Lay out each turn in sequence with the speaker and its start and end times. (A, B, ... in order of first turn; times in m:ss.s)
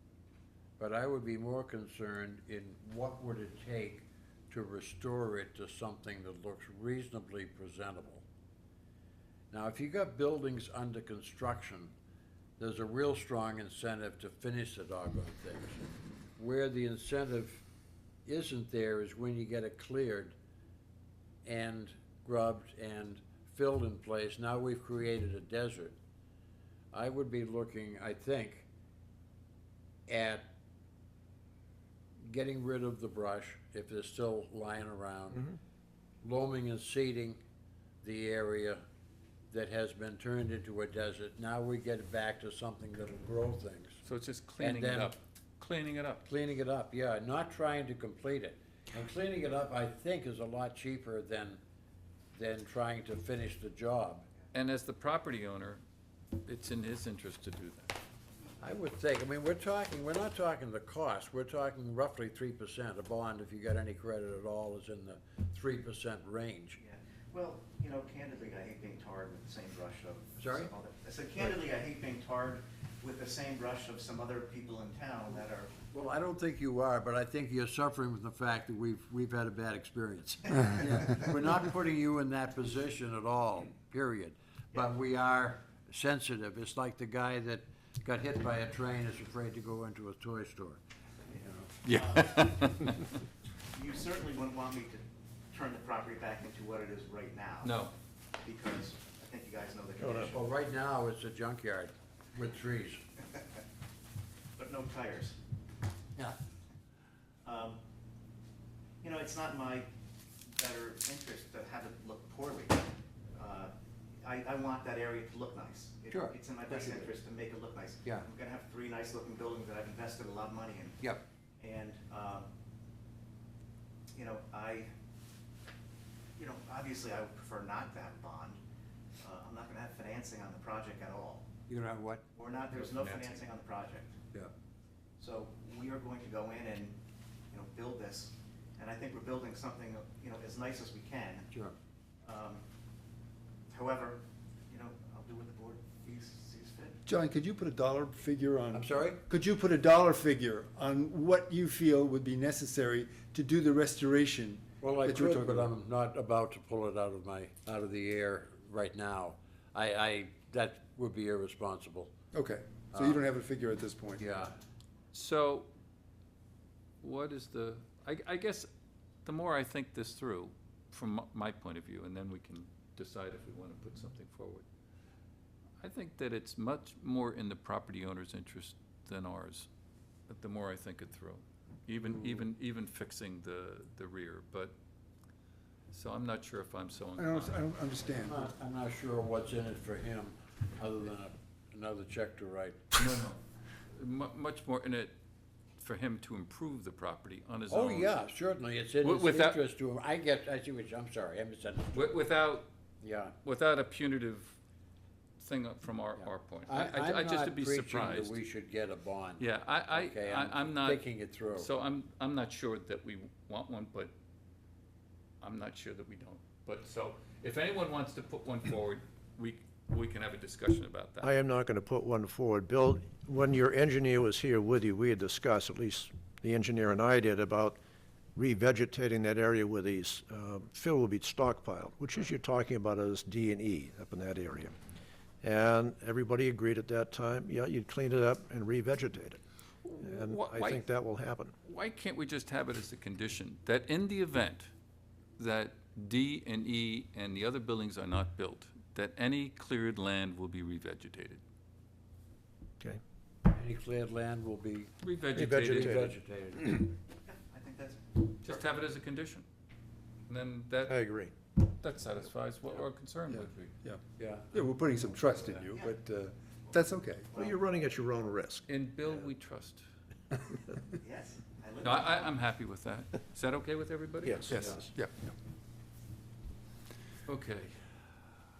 0:00.8-0:08.2 A
0:09.5-0:11.9 A
0:12.6-0:17.6 A
0:18.2-0:20.4 A
0:21.4-0:26.0 A
0:26.9-0:28.7 A
0:30.1-0:30.5 A
0:32.2-0:35.6 A
0:36.2-0:37.4 A
0:38.0-0:38.8 A
0:39.5-0:44.0 A
0:44.0-0:46.2 B
0:44.6-0:45.2 A
0:46.2-0:51.6 A
0:52.3-0:54.3 A
0:54.5-0:55.8 B
0:56.4-0:58.0 B
0:58.6-1:06.8 A
1:06.8-1:15.8 C
1:10.4-1:10.7 A
1:15.9-1:30.8 A
1:20.6-1:21.0 C
1:31.4-1:31.7 A
1:31.8-1:33.0 B
1:31.9-1:32.5 C
1:33.7-1:37.8 C
1:37.6-1:37.9 B
1:38.4-1:40.5 C
1:40.0-1:40.3 D
1:40.3-1:43.0 A
1:44.6-1:45.4 C
1:47.4-1:47.8 C
1:49.0-1:49.9 C
1:50.5-2:01.1 C
1:56.1-1:57.1 A
2:01.6-2:02.5 C
2:04.1-2:04.9 C
2:06.4-2:08.6 C
2:09.2-2:11.5 C
2:11.7-2:12.2 A
2:12.3-2:14.2 C
2:12.7-2:13.4 B
2:15.2-2:17.0 C
2:17.5-2:21.5 C
2:22.2-2:22.6 C
2:23.7-2:27.0 C
2:27.0-2:35.7 E
2:28.7-2:29.2 A
2:34.8-2:42.1 A
2:42.3-2:44.3 E
2:42.9-2:43.2 A
2:44.2-2:44.5 A
2:45.1-2:45.7 B
2:47.0-2:48.7 B
2:49.2-2:54.6 B
2:55.8-2:59.7 B
3:00.3-3:04.7 B
3:05.9-3:07.6 B
3:07.2-3:08.4 E
3:08.2-3:12.8 A
3:13.0-3:15.1 B
3:15.8-3:18.2 B
3:17.7-3:22.1 A
3:19.0-3:19.6 B
3:21.9-3:22.7 B
3:23.0-3:23.4 A
3:23.4-3:24.6 B
3:25.4-3:28.4 B
3:26.2-3:31.7 A
3:29.4-3:34.1 B
3:35.4-3:41.3 B
3:41.2-3:47.8 D
3:48.4-3:54.7 D
3:55.4-3:59.4 D
3:59.8-4:00.8 B
4:00.0-4:01.5 D
4:01.6-4:04.7 B
4:05.4-4:11.4 B
4:13.5-4:14.9 A
4:15.0-4:16.0 B
4:15.3-4:16.1 D
4:15.6-4:16.9 A
4:17.3-4:18.6 C
4:18.4-4:19.4 B
4:20.3-4:21.0 B
4:20.9-4:21.3 D
4:21.6-4:23.8 B
4:24.2-4:25.7 A
4:24.5-4:27.3 E
4:25.7-4:26.0 C
4:27.3-4:28.6 D
4:28.7-4:29.8 B
4:31.0-4:32.3 C
4:31.8-4:34.8 B
4:34.2-4:34.9 D
4:34.5-4:35.1 E
4:37.3-4:37.8 B